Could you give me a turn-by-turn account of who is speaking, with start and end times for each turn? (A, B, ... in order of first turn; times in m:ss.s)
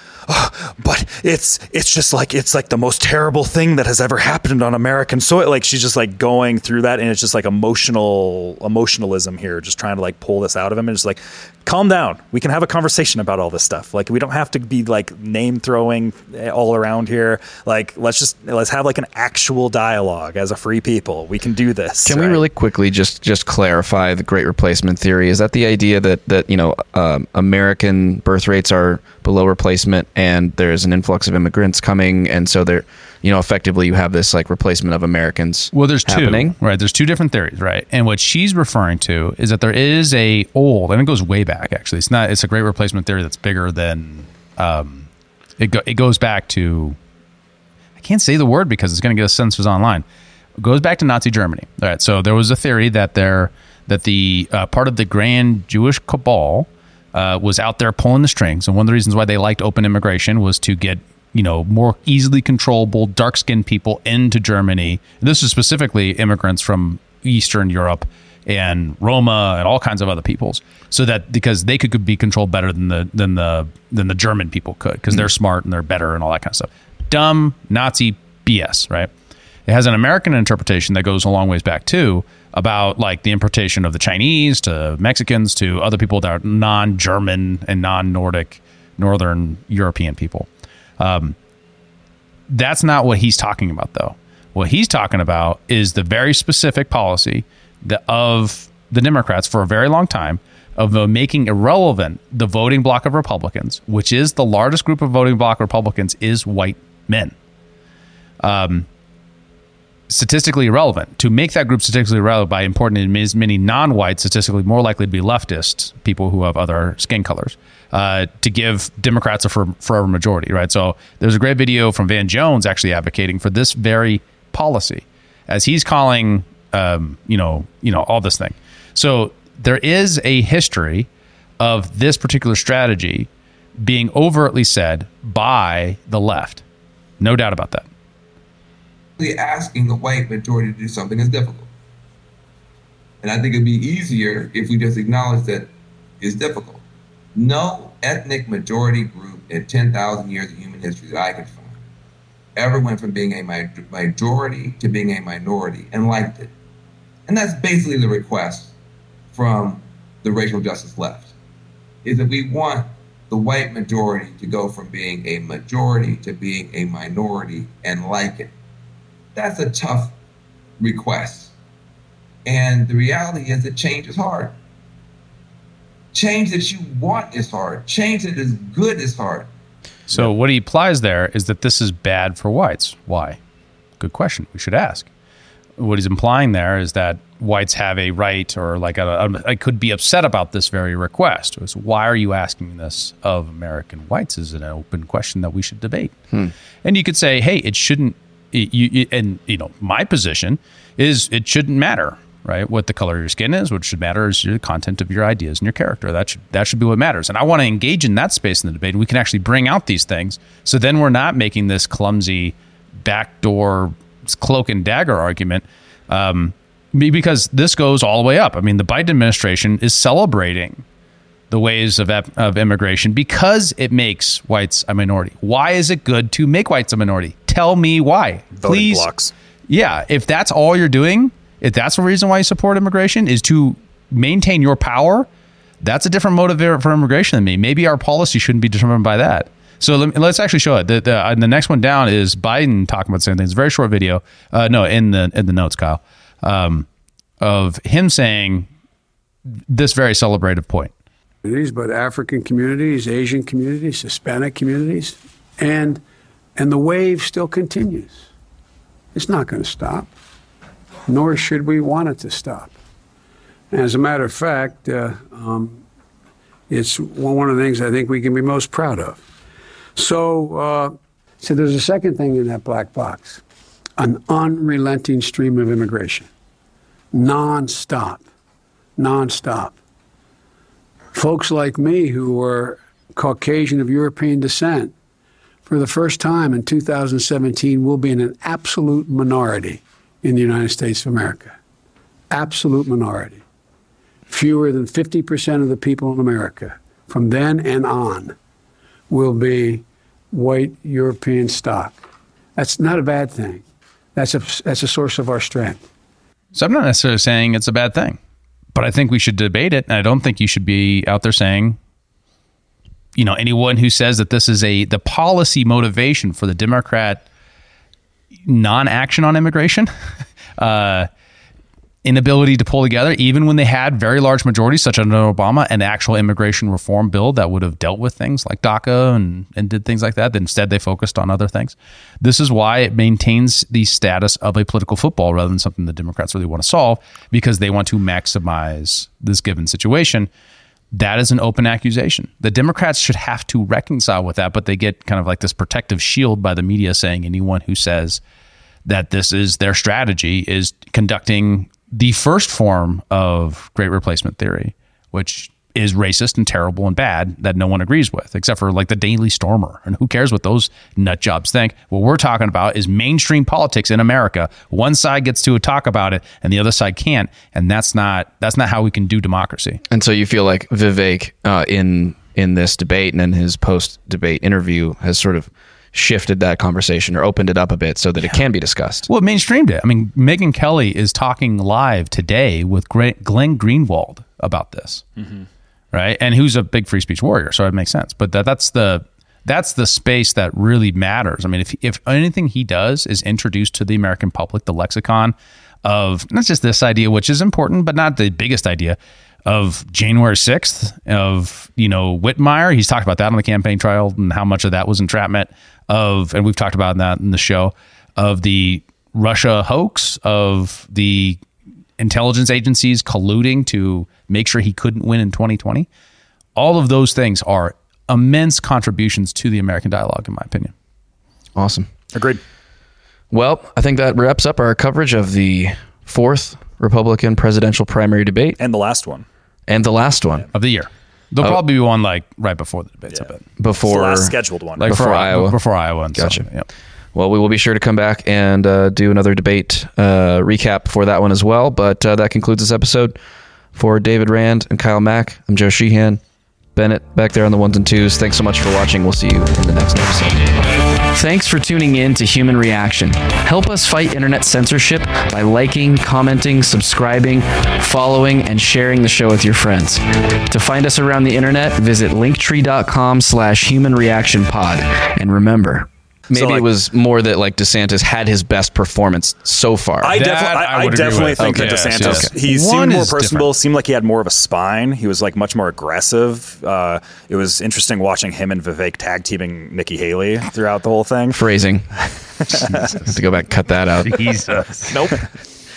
0:00.3-0:22.4 A
0:22.0-0:36.5 B
0:35.7-0:45.1 C
0:45.6-0:47.0 C
0:48.0-0:50.0 C
0:50.6-1:19.1 C
1:19.6-1:30.5 C
1:31.0-1:31.4 C
1:32.5-1:47.4 C
1:48.4-1:48.9 C
1:50.1-2:11.1 C
2:11.6-2:16.6 C
2:17.2-2:17.9 C
2:19.2-2:21.7 D
2:23.2-2:26.8 D
2:27.3-2:31.8 D
2:32.5-2:36.5 D
2:37.3-2:38.7 D
2:39.3-2:41.3 D
2:42.0-2:48.5 D
2:49.3-2:50.2 D
2:50.8-2:51.5 D
2:52.4-2:54.6 D
2:56.1-2:59.5 D
3:00.1-3:03.4 C
3:04.0-3:05.1 C
3:05.8-3:16.1 C
3:16.8-3:40.8 C
3:41.5-3:49.1 C
3:48.6-3:49.3 A
3:49.7-3:55.3 C
3:55.8-4:06.9 C
4:07.4-4:08.7 C
4:09.7-4:10.9 C
4:11.4-4:16.0 E
4:16.6-4:18.2 E
4:19.1-4:20.1 E
4:21.1-4:22.7 E
4:23.7-4:25.8 E
4:26.7-4:29.2 E
4:30.0-4:33.4 E
4:34.0-4:36.3 E
4:37.1-4:38.2 E
4:39.0-4:39.8 E
4:41.1-4:44.9 E
4:45.6-4:51.6 E
4:52.3-4:53.4 E
4:54.3-4:58.3 E
4:59.1-5:02.0 E
5:02.6-5:03.6 E
5:04.1-5:05.8 E
5:06.5-5:08.2 C
5:08.7-5:11.8 C
5:13.2-5:17.2 C
5:18.4-5:19.9 C
5:20.6-5:21.1 C
5:22.0-5:40.3 C
5:40.9-5:48.2 C
5:48.8-6:09.8 C
6:09.9-6:19.1 B
6:19.1-6:25.0 C
6:25.2-6:25.4 A
6:25.9-6:51.4 C
6:52.0-6:55.9 C
6:56.6-7:00.7 C
7:01.5-7:01.9 B
7:02.1-7:02.4 A
7:03.3-7:08.6 B
7:08.6-7:09.2 A
7:09.7-7:10.5 B
7:10.5-7:13.4 C
7:13.6-7:15.6 B
7:13.8-7:15.2 A
7:14.8-7:16.7 C
7:16.1-7:16.5 B
7:17.1-7:23.2 B
7:23.7-7:26.2 B
7:26.7-7:30.6 B
7:31.1-7:50.2 B
7:46.3-7:46.6 A
7:50.0-8:02.6 A
7:50.1-7:53.5 C
7:51.4-7:52.3 B
8:01.3-8:01.9 B
8:02.6-8:03.2 C
8:03.0-8:04.2 B
8:04.0-8:04.9 C
8:04.9-8:05.2 A